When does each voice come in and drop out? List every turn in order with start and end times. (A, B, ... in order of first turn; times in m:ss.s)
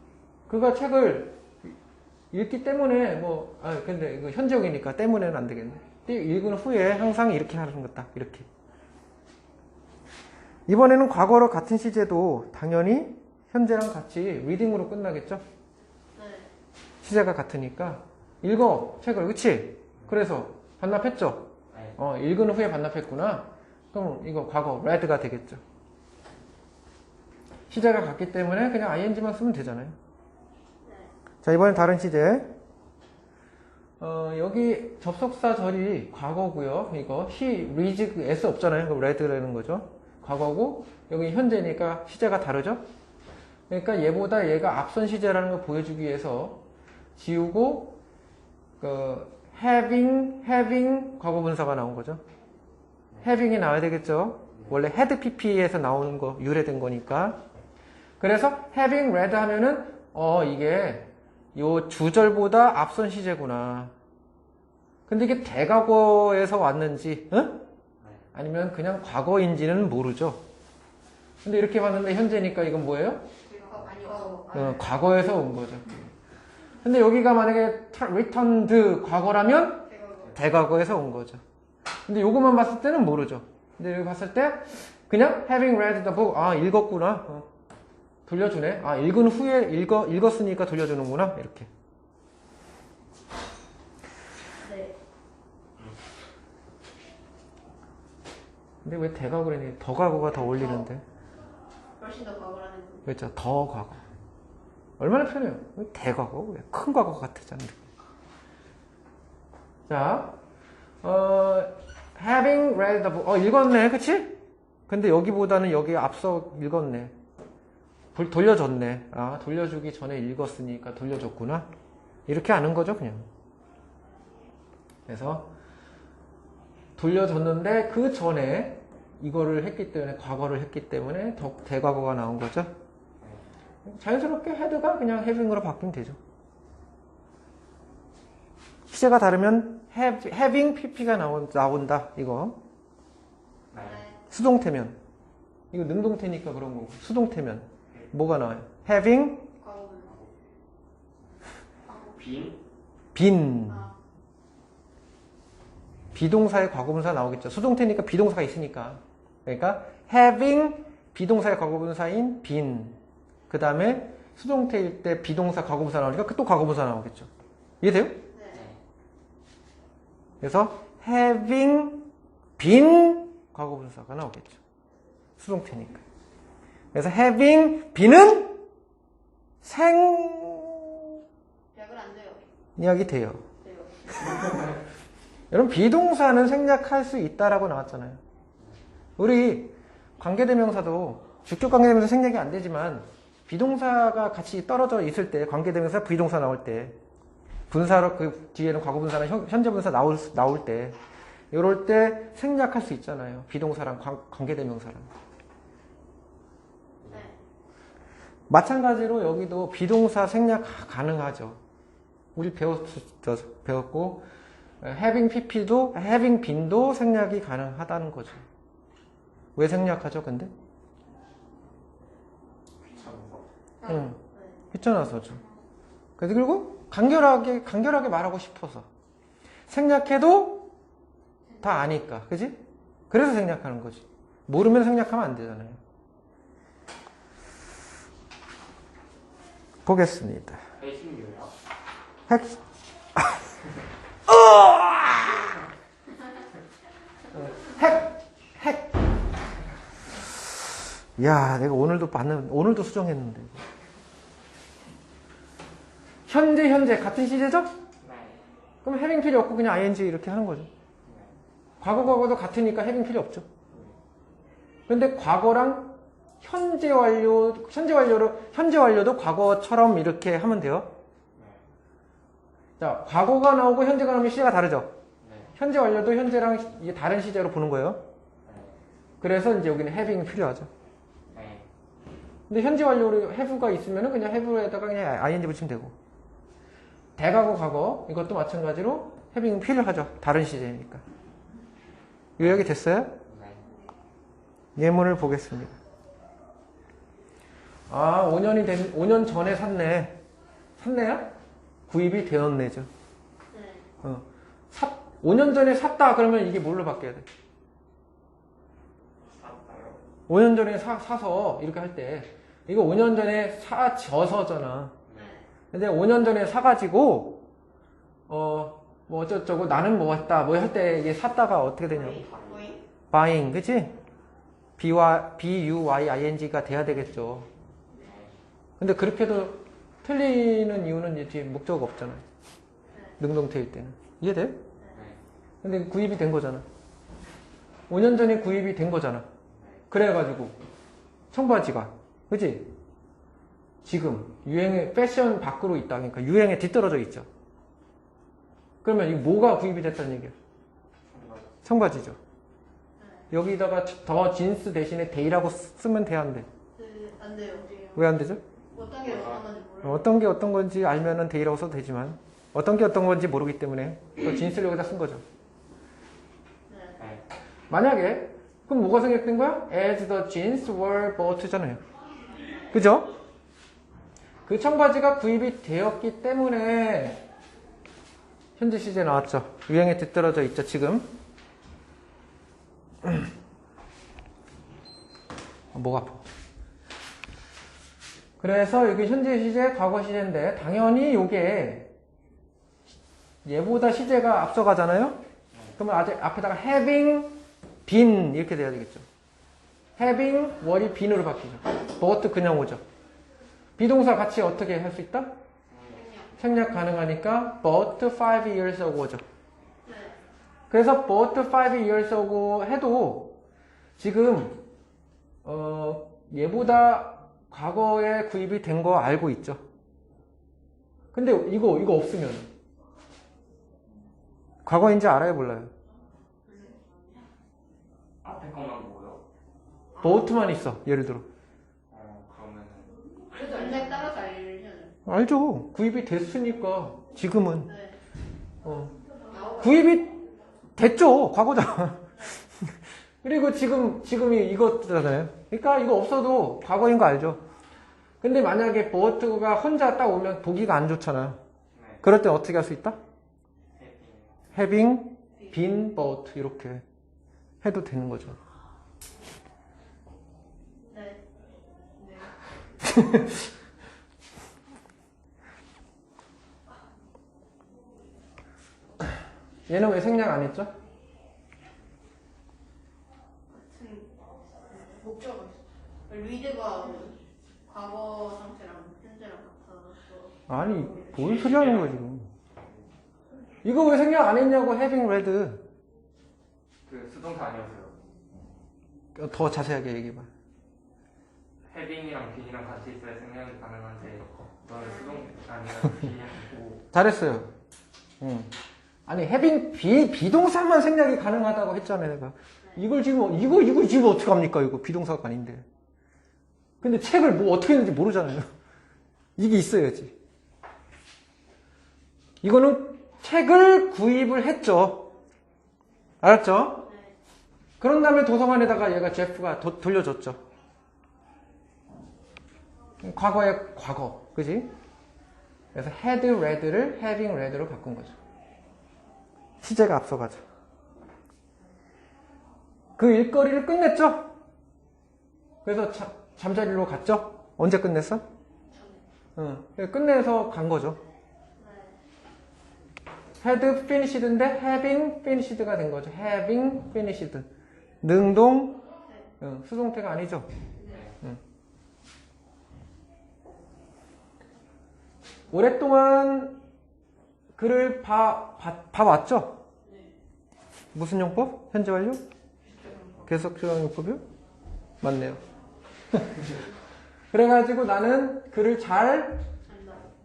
0:00.5-0:01.7 A
0:02.3-0:08.5 A
0:10.7-0:15.4 A
0:16.1-0:16.5 B
0:17.0-0:25.6 A
0:21.7-0:22.0 C
0:27.7-0:29.9 A
0:30.8-0:31.1 B
0:31.4-0:32.5 A
0:34.0-0:42.8 A
0:43.7-0:46.6 A
0:47.2-0:48.0 A
0:48.8-0:52.2 A
0:53.2-0:57.4 A
0:58.2-1:03.9 A
1:05.1-1:07.6 A
1:08.3-1:10.4 A
1:11.4-1:13.2 A
1:13.4-1:14.8 B
1:14.5-1:16.1 A
1:16.8-1:21.4 A
1:19.8-1:20.3 B
1:22.1-1:27.5 A
1:28.2-1:31.7 A
1:34.6-1:34.9 B
1:38.8-1:41.0 A
1:40.3-1:40.8 B
1:42.0-1:43.1 B
1:43.0-1:44.0 A
1:45.0-1:47.8 A
1:49.9-1:50.3 A
1:51.0-1:54.4 A
1:54.9-1:57.1 A
1:58.2-2:01.7 A
2:02.3-2:03.3 A
2:05.1-2:05.5 A
2:07.0-2:12.7 A
2:13.2-2:13.5 C
2:13.8-2:16.2 A
2:18.9-2:22.6 A
2:23.7-2:24.0 C
2:23.8-2:24.2 B
2:24.3-2:25.0 A
2:25.7-2:29.5 A
2:29.6-2:30.1 B
2:31.8-2:32.2 B
2:32.2-2:32.6 C
2:33.1-2:33.8 A
2:33.7-2:34.0 B
2:36.1-2:43.0 A
2:43.5-2:47.3 A
2:47.8-2:48.2 A
2:48.3-2:48.7 B
2:48.5-2:48.8 C
2:50.4-2:52.1 A
2:52.6-2:54.6 A
2:55.4-2:56.0 A
2:56.9-2:58.6 A
2:59.6-3:01.1 A
3:01.7-3:02.4 B
3:02.8-3:03.4 A
3:03.6-3:04.1 B
3:05.5-3:08.2 A
3:09.2-3:17.0 A
3:17.7-3:21.0 A
3:21.5-3:25.1 A
3:27.1-3:27.4 B
3:28.5-3:31.6 A
3:32.3-3:34.2 A
3:34.8-3:38.4 A
3:39.6-3:40.5 A
3:42.8-3:43.4 C
3:43.8-3:44.6 B
3:43.8-3:44.2 A
3:44.7-3:45.4 A
3:46.2-3:48.8 A
3:49.7-3:50.7 A
3:51.5-3:51.8 B
3:51.6-3:55.8 A
3:59.8-4:00.6 A
4:00.8-4:01.5 C
4:02.3-4:02.6 A
4:03.2-4:03.4 A
4:04.3-4:05.6 A
4:07.3-4:08.9 A
4:11.2-4:13.6 A
4:16.3-4:17.7 A
4:18.0-4:18.4 C
4:18.8-4:20.7 A
4:21.0-4:21.3 C
4:21.8-4:23.5 A
4:23.7-4:24.0 C
4:24.9-4:30.9 A
4:31.4-4:31.6 C
4:32.8-4:34.9 A
4:35.2-4:35.5 C
4:35.6-4:38.0 A
4:38.4-4:38.8 C
4:39.2-4:40.7 A
4:41.3-4:41.6 C
4:42.5-4:45.9 A
4:47.2-4:51.0 A
4:52.4-4:53.2 A
4:53.3-4:53.6 C
4:54.8-4:55.8 A
4:57.9-5:00.2 A
5:00.8-5:01.3 A
5:01.9-5:02.9 A
5:03.5-5:03.9 B
5:04.0-5:07.3 A
5:09.2-5:10.0 C
5:10.3-5:14.9 A
5:15.0-5:15.4 C
5:15.1-5:15.4 B
5:15.7-5:17.4 A
5:18.3-5:22.2 A
5:21.9-5:22.8 B
5:22.2-5:22.8 C
5:23.1-5:23.9 A
5:24.8-5:27.5 A
5:28.0-5:28.4 C
5:28.8-5:32.2 A
5:32.9-5:33.2 B
5:33.2-5:34.6 A
5:35.6-5:36.6 A
5:37.9-5:39.2 A
5:39.9-5:40.6 A
5:41.3-5:42.7 A
5:43.8-5:47.3 A
5:48.8-5:50.3 A
5:51.1-5:51.5 C
5:51.6-5:52.2 A
5:53.0-5:53.2 B
5:53.3-5:56.5 A
5:56.8-5:58.0 B
5:57.9-5:58.4 A
5:58.7-6:00.1 B
5:59.0-5:59.4 C
5:59.8-6:05.2 A
6:06.7-6:07.0 B
6:07.7-6:11.8 A
6:12.7-6:13.1 A
6:14.4-6:17.2 A
6:18.6-6:21.1 A
6:23.0-6:23.3 A
6:25.7-6:26.2 A
6:28.4-6:31.9 A
6:33.4-6:35.2 A
6:35.8-6:39.0 A
6:40.0-6:42.8 A
6:43.8-6:45.3 A
6:45.7-6:46.0 C
6:45.9-6:46.3 B
6:46.4-6:49.2 A
6:49.8-6:50.2 B
6:50.7-6:53.4 A
6:54.0-6:54.6 A
6:55.4-6:59.6 A
7:01.1-7:02.5 A
7:04.6-7:05.7 A
7:06.5-7:06.8 B
7:08.2-7:09.2 C
7:10.0-7:11.2 A
7:11.9-7:13.8 C
7:13.3-7:14.9 B
7:15.0-7:17.7 A
7:17.6-7:18.0 B
7:18.6-7:18.9 A
7:19.2-7:19.9 B
7:19.6-7:20.1 A
7:20.8-7:22.1 A
7:22.6-7:27.4 A
7:28.2-7:31.4 A
7:31.7-7:32.0 C
7:32.0-7:33.0 A
7:33.7-7:34.4 C
7:34.5-7:36.8 A
7:37.6-7:38.4 A
7:40.9-7:41.2 B
7:42.0-7:42.3 B
7:42.8-7:43.4 A
7:49.7-7:50.7 A
7:53.5-7:54.1 B
7:54.7-7:55.4 B
7:56.1-8:00.4 B
8:00.5-8:02.3 A
8:01.1-8:02.0 C
8:02.6-8:02.9 C
8:03.6-8:05.6 A
8:06.8-8:07.9 C
8:09.1-8:10.3 A
8:11.7-8:16.8 C
8:14.8-8:15.2 B
8:16.9-8:17.5 A
8:18.2-8:18.5 A
8:19.1-8:25.6 A
8:26.8-8:28.5 A
8:29.4-8:30.1 A
8:32.4-8:35.1 A
8:36.2-8:36.8 A
8:36.8-8:37.1 B
8:37.8-8:40.4 A
8:43.0-8:44.7 A
8:45.8-8:48.2 A
8:49.6-8:50.4 A
8:53.0-8:54.3 A
8:55.6-8:58.2 A
8:58.7-8:59.0 B
8:59.4-9:01.0 A
9:01.6-9:02.0 B
9:03.4-9:07.5 A
9:08.0-9:08.8 A
9:09.0-9:09.3 B
9:09.4-9:10.5 A
9:10.8-9:11.1 B
9:10.8-9:11.2 C
9:15.5-9:16.6 A
9:17.6-9:19.6 A
9:19.8-9:20.1 B
9:20.9-9:22.2 A
9:22.7-9:23.2 B
9:23.2-9:24.2 A
9:25.0-9:25.4 A
9:26.1-9:26.6 A
9:27.3-9:29.4 A
9:29.7-9:30.0 B